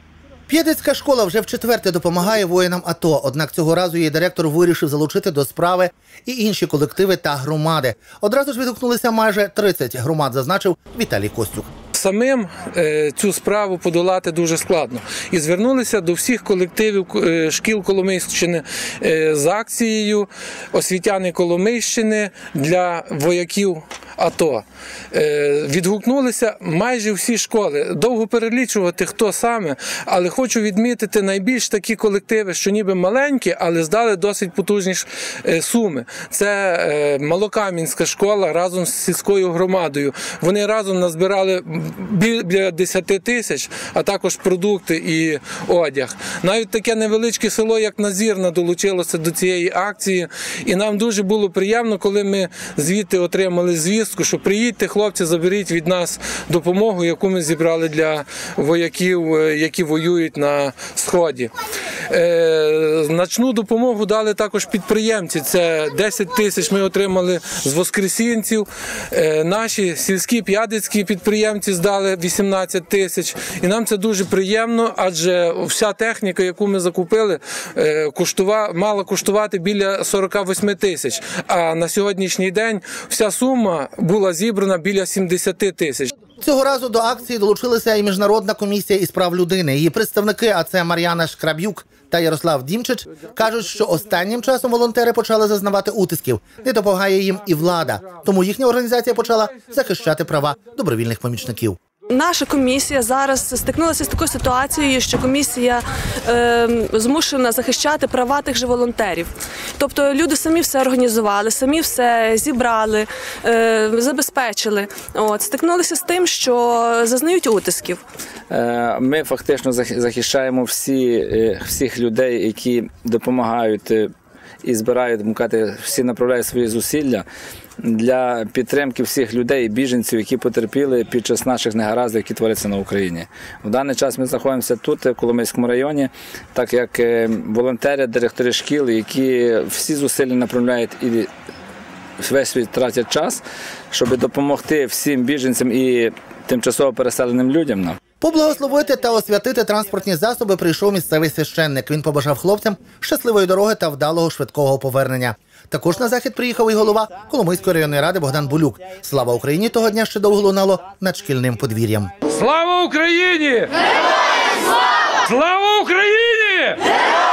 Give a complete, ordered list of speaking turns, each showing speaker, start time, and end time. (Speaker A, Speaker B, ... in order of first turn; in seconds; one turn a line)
Speaker A: 0.5-11.7
Speaker B: 11.9-61.5
Speaker B: 62.1-86.1
Speaker A: 86.4-101.8
Speaker C: 102.1-118.0
Speaker D: 118.5-124.1
Speaker D: 124.6-127.2
Speaker D: 127.8-141.3
Speaker D: 142.2-148.0
Speaker A: 148.2-162.1
Speaker B: 162.3-163.7
Speaker B: 165.2-166.8